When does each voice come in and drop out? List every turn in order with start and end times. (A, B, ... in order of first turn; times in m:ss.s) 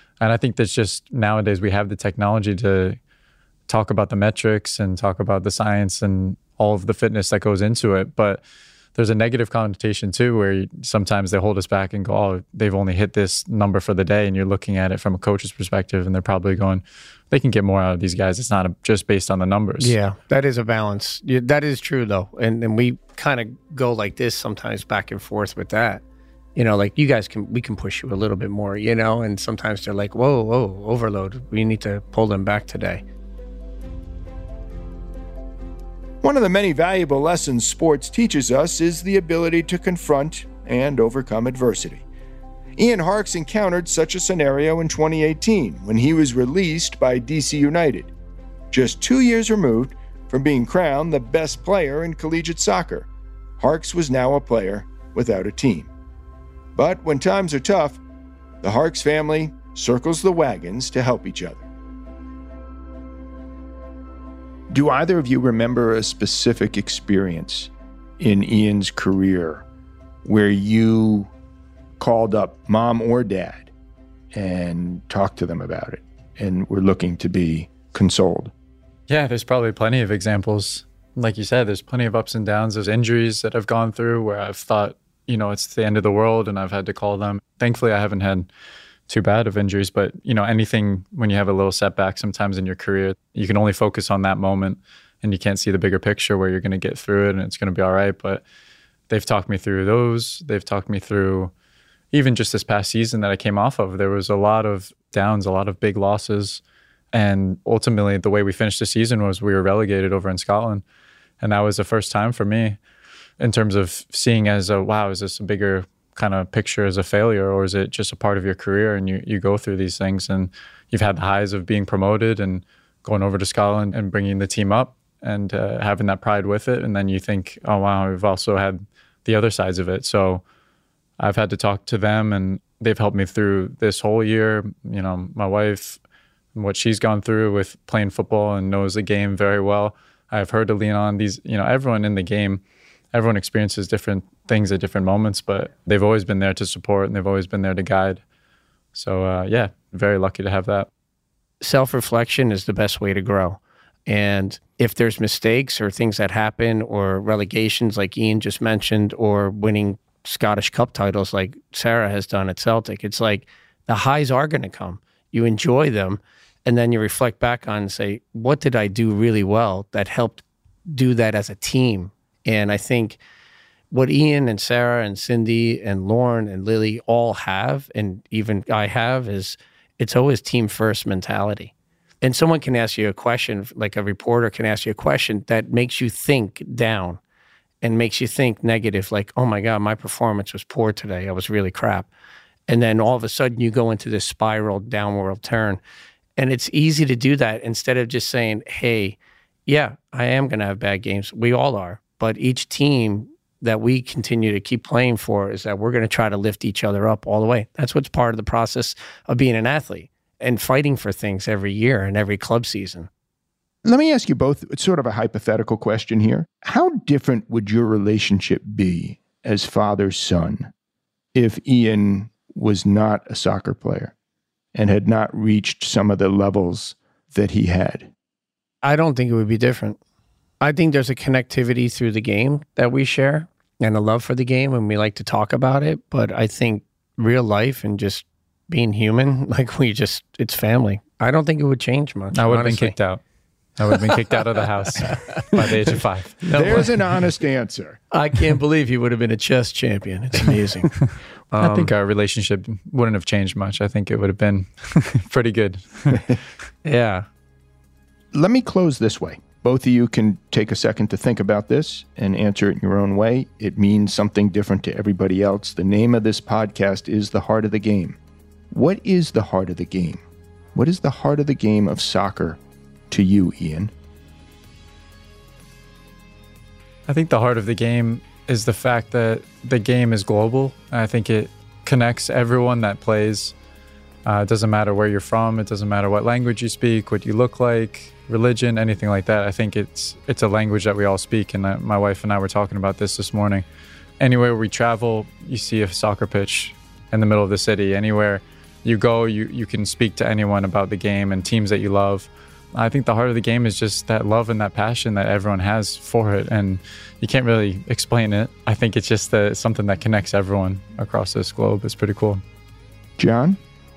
0:00.2-0:03.0 A
0:03.7-0:08.4 A
0:09.0-0:20.0 A
0:19.8-0:26.0 B
0:26.6-0:33.0 B
0:36.2-0:42.0 C
0:42.8-0:48.1 C
0:48.7-0:53.1 C
0:53.6-0:55.9 C
0:56.8-0:58.0 C
0:58.6-1:01.7 C
1:04.7-1:09.6 C
1:10.2-1:11.3 C
1:12.0-1:13.7 C
1:14.3-1:18.5 C
1:19.1-1:28.5 A
1:29.1-1:38.4 A
1:39.1-1:41.5 A
1:42.1-1:46.6 A
1:47.1-1:50.8 A
1:51.4-1:52.8 A
1:53.4-2:10.4 A
2:11.2-2:16.0 A
2:16.6-2:22.6 A
2:23.1-2:28.2 A
2:28.9-2:30.9 A
2:31.6-2:53.2 B
2:53.9-3:07.2 B
3:07.8-3:12.1 B
3:12.7-3:15.8 B
3:16.4-3:33.1 B
3:33.8-3:40.7 C
3:41.3-3:44.1 C
3:44.8-3:48.1 C
3:48.8-3:50.0 B
3:50.6-4:02.9 B
4:02.3-4:03.2 A
4:03.8-4:06.9 A
4:03.9-4:04.2 B
4:05.0-4:05.7 B
4:06.4-4:06.9 B
4:06.5-4:08.0 C
4:08.1-4:10.9 B
4:11.0-4:16.4 A
4:11.5-4:11.9 B
4:16.8-4:17.3 B
4:18.3-4:28.2 C
4:28.7-4:30.2 C
4:30.7-4:32.6 C
4:33.1-4:33.9 C
4:37.1-4:43.5 A
4:44.2-4:53.6 A
4:54.2-5:12.4 A
5:13.2-5:13.6 C